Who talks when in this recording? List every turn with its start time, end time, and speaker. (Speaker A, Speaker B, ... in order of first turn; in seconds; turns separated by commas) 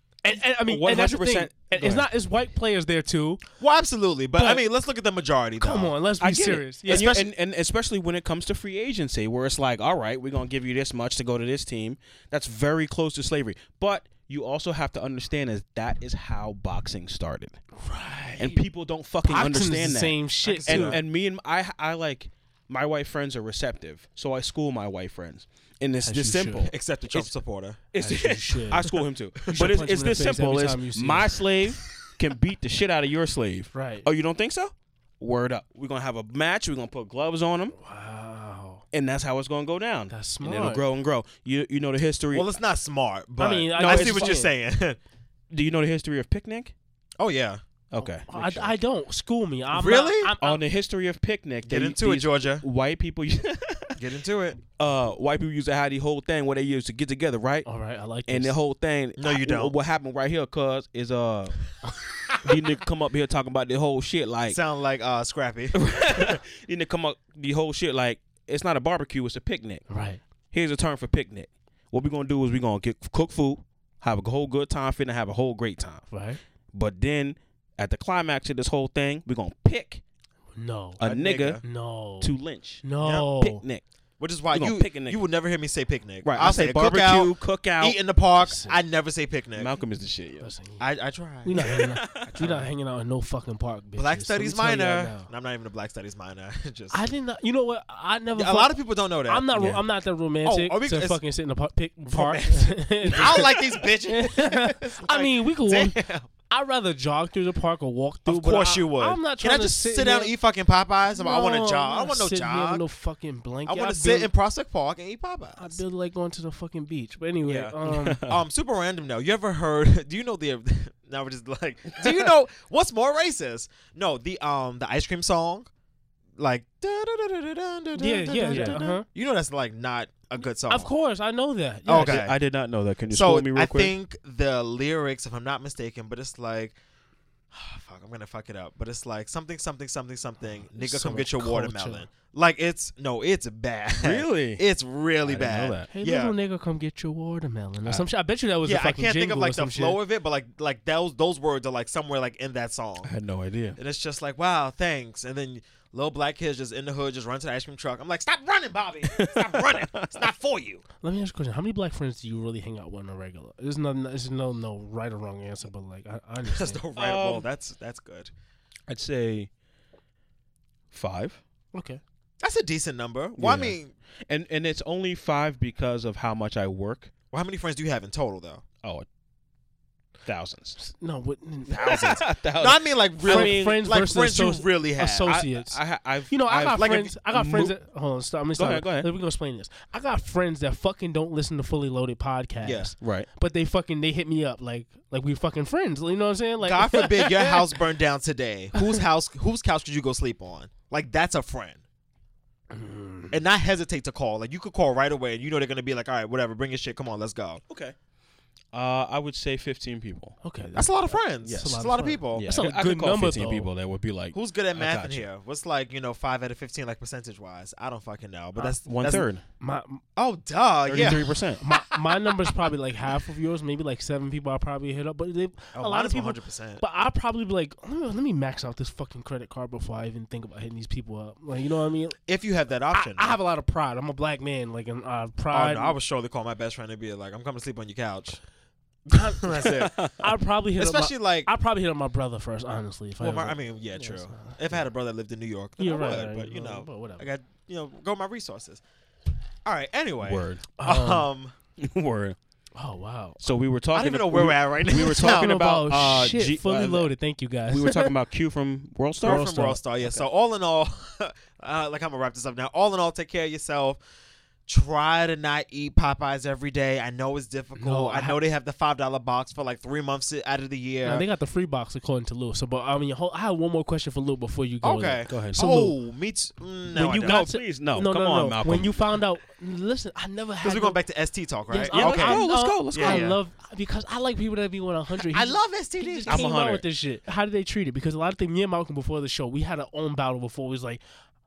Speaker A: 0.2-3.4, Speaker B: 0.6-2.1, Speaker C: 3.6-5.9, Speaker A: 4.4-4.6, Speaker A: 5.6-7.1, Speaker B: 6.2-17.6, Speaker C: 6.9-7.3, Speaker A: 17.8-18.6, Speaker B: 18.4-26.7, Speaker A: 19.2-21.0, Speaker C: 20.4-21.0, Speaker A: 26.0-26.7, Speaker C: 26.6-27.8, Speaker B: 27.9-37.8, Speaker A: 27.9-28.9, Speaker A: 29.5-31.3, Speaker A: 33.7-34.0, Speaker A: 37.8-38.8, Speaker B: 38.9-42.5, Speaker A: 40.1-40.8, Speaker C: 42.3-45.0, Speaker A: 43.4-44.5, Speaker B: 43.8-44.4, Speaker B: 45.5-46.7, Speaker C: 47.2-47.6, Speaker B: 47.9-48.8, Speaker A: 48.0-50.6, Speaker C: 49.7-50.3, Speaker B: 50.4-54.0, Speaker C: 51.6-52.6, Speaker C: 54.0-54.6, Speaker B: 54.8-57.7, Speaker A: 57.6-58.5, Speaker B: 58.3-61.6, Speaker C: 59.2-59.8, Speaker B: 62.3-64.6, Speaker C: 64.5-66.4, Speaker B: 65.7-69.8, Speaker A: 69.9-70.2, Speaker B: 70.5-76.1, Speaker A: 76.1-76.4, Speaker B: 76.7-80.0, Speaker A: 80.5-81.0, Speaker B: 81.0-81.6, Speaker C: 81.0-81.6, Speaker A: 81.6-83.6, Speaker B: 82.2-83.8, Speaker C: 84.2-89.8, Speaker B: 84.5-85.2, Speaker B: 86.2-88.0, Speaker A: 88.4-88.8, Speaker B: 89.6-90.5, Speaker A: 90.4-90.8, Speaker C: 90.8-92.5, Speaker A: 91.4-95.3, Speaker B: 91.6-92.6, Speaker C: 94.0-97.0, Speaker A: 96.9-110.3, Speaker C: 98.3-99.5, Speaker B: 99.5-99.8, Speaker C: 100.4-101.2, Speaker C: 102.1-106.3, Speaker C: 108.2-112.8, Speaker A: 111.1-114.3, Speaker C: 113.7-115.8, Speaker A: 115.6-118.2, Speaker C: 117.5-125.7, Speaker B: 117.9-118.4, Speaker C: 126.4-130.9, Speaker A: 127.9-129.1, Speaker B: 128.5-128.8, Speaker A: 130.7-132.2, Speaker C: 131.8-132.4, Speaker B: 132.0-133.9, Speaker C: 133.1-136.8, Speaker C: 137.5-146.3, Speaker A: 140.7-142.1, Speaker B: 143.9-144.6, Speaker B: 145.2-145.9, Speaker A: 145.9-150.0, Speaker C: 148.6-153.1, Speaker B: 153.0-153.8, Speaker C: 153.8-160.8, Speaker B: 159.1-160.1, Speaker A: 161.0-166.8, Speaker C: 166.4-168.3, Speaker B: 166.9-167.4, Speaker B: 168.9-169.5, Speaker B: 170.9-171.4, Speaker A: 171.7-172.0, Speaker C: 172.4-173.9, Speaker B: 173.4-177.1, Speaker C: 177.3-178.6, Speaker B: 180.2-180.8, Speaker A: 180.8-182.1, Speaker B: 181.7-183.8, Speaker C: 181.7-185.3, Speaker A: 183.3-185.8, Speaker B: 185.3-187.7, Speaker A: 186.3-197.7, Speaker C: 186.8-187.1, Speaker B: 188.6-189.1, Speaker C: 192.6-192.9, Speaker B: 193.0-193.3, Speaker C: 196.6-201.8, Speaker A: 202.7-203.4, Speaker C: 203.3-207.6, Speaker B: 207.7-207.9, Speaker B: 208.7-210.4, Speaker A: 210.4-213.7, Speaker C: 210.7-212.5, Speaker B: 211.4-211.7, Speaker B: 212.3-215.3, Speaker C: 214.3-219.3, Speaker B: 218.8-219.4, Speaker A: 219.6-220.0, Speaker C: 220.2-221.4, Speaker B: 220.9-221.6, Speaker A: 221.6-232.2, Speaker C: 225.7-226.8, Speaker C: 232.2-233.4, Speaker A: 232.9-235.9, Speaker C: 235.5-238.4, Speaker A: 239.1-244.8, Speaker C: 239.3-239.9, Speaker B: 239.9-240.2, Speaker C: 240.8-241.5, Speaker C: 243.2-248.8, Speaker A: 245.8-247.3, Speaker C: 249.6-251.5, Speaker B: 250.2-250.7, Speaker A: 250.8-251.3, Speaker B: 251.8-252.4, Speaker A: 252.8-253.4, Speaker B: 253.4-257.1, Speaker C: 253.9-255.6, Speaker A: 255.1-258.1, Speaker B: 257.7-259.4, Speaker C: 259.2-264.0, Speaker A: 259.2-259.8, Speaker C: 264.7-271.2, Speaker A: 267.8-268.4, Speaker A: 271.0-275.9, Speaker C: 274.8-277.4, Speaker B: 275.3-275.6, Speaker A: 276.9-281.0, Speaker B: 277.2-279.0, Speaker C: 280.6-283.4, Speaker A: 281.7-291.0, Speaker B: 281.9-283.3, Speaker C: 285.2-286.5, Speaker B: 286.3-286.8